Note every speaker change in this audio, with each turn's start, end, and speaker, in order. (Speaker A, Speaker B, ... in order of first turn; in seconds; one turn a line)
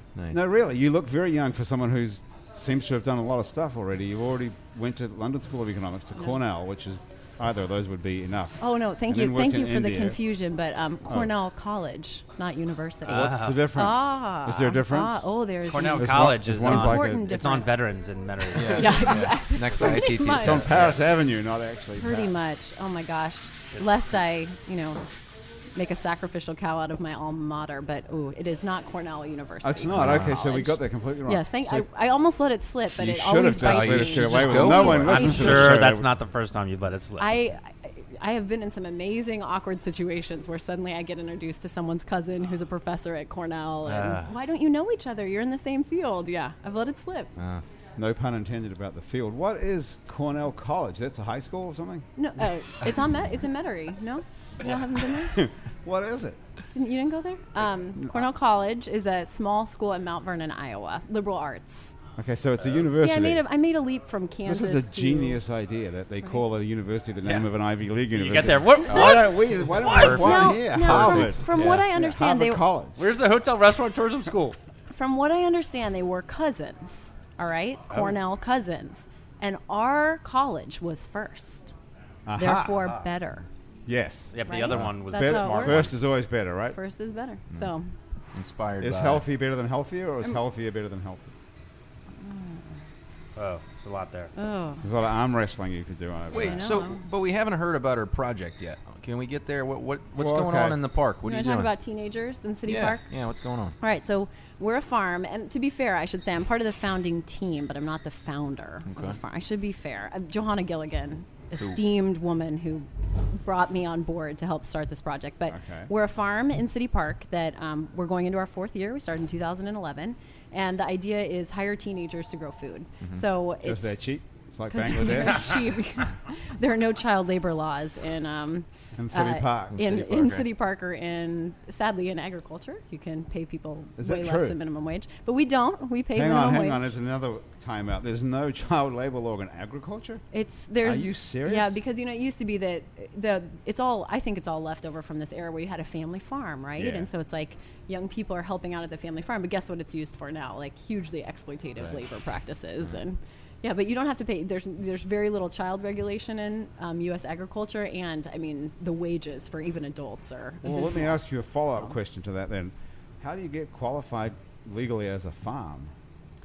Speaker A: 0.3-10.2
Speaker B: 8.6-17.8
Speaker A: 11.1-11.3
Speaker C: 13.1-13.7
Speaker A: 13.1-15.2
Speaker C: 15.7-20.2
Speaker A: 16.0-17.3
Speaker D: 18.5-21.0
Speaker B: 18.7-20.7
Speaker A: 20.4-22.4
Speaker C: 20.7-21.0
Speaker B: 22.0-25.0
Speaker B: 25.7-35.9
Speaker A: 29.6-31.9
Speaker D: 29.9-30.4
Speaker A: 33.0-36.1
Speaker D: 33.6-35.4
Speaker C: 34.8-37.4
Speaker B: 37.2-47.3
Speaker D: 43.9-44.3
Speaker D: 47.4-47.6
Speaker A: 48.0-52.1
Speaker B: 52.2-55.4
Speaker A: 55.3-56.4
Speaker B: 56.7-62.0
Speaker A: 58.0-58.3
Speaker A: 62.2-63.5
Speaker B: 62.9-65.4
Speaker A: 64.5-73.0
Speaker C: 67.2-67.5
Speaker C: 68.1-70.2
Speaker D: 68.9-69.2
Speaker B: 68.9-69.3
Speaker D: 69.8-71.9
Speaker B: 69.8-72.6
Speaker C: 73.0-74.6
Speaker B: 74.9-81.8
Speaker C: 77.9-78.2
Speaker A: 82.3-83.0
Speaker B: 82.4-83.5
Speaker A: 83.9-86.8
Speaker C: 84.3-86.0
Speaker B: 84.5-85.9
Speaker B: 86.7-87.9
Speaker D: 88.3-89.3
Speaker A: 88.8-91.3
Speaker B: 92.2-92.7
Speaker C: 93.4-94.3
Speaker B: 94.4-94.8
Speaker A: 94.8-96.7
Speaker D: 96.3-101.7
Speaker B: 96.4-97.0
Speaker A: 100.2-100.8
Speaker B: 101.2-103.1
Speaker D: 102.7-103.8
Speaker B: 103.8-124.0
Speaker D: 108.9-109.2
Speaker A: 115.5-115.9
Speaker A: 123.6-125.6
Speaker B: 124.7-136.9
Speaker A: 129.0-130.0
Speaker D: 129.7-130.5
Speaker A: 134.0-134.6
Speaker A: 136.1-140.2
Speaker B: 140.3-161.2
Speaker A: 140.8-141.8
Speaker A: 146.8-147.1
Speaker A: 160.6-165.9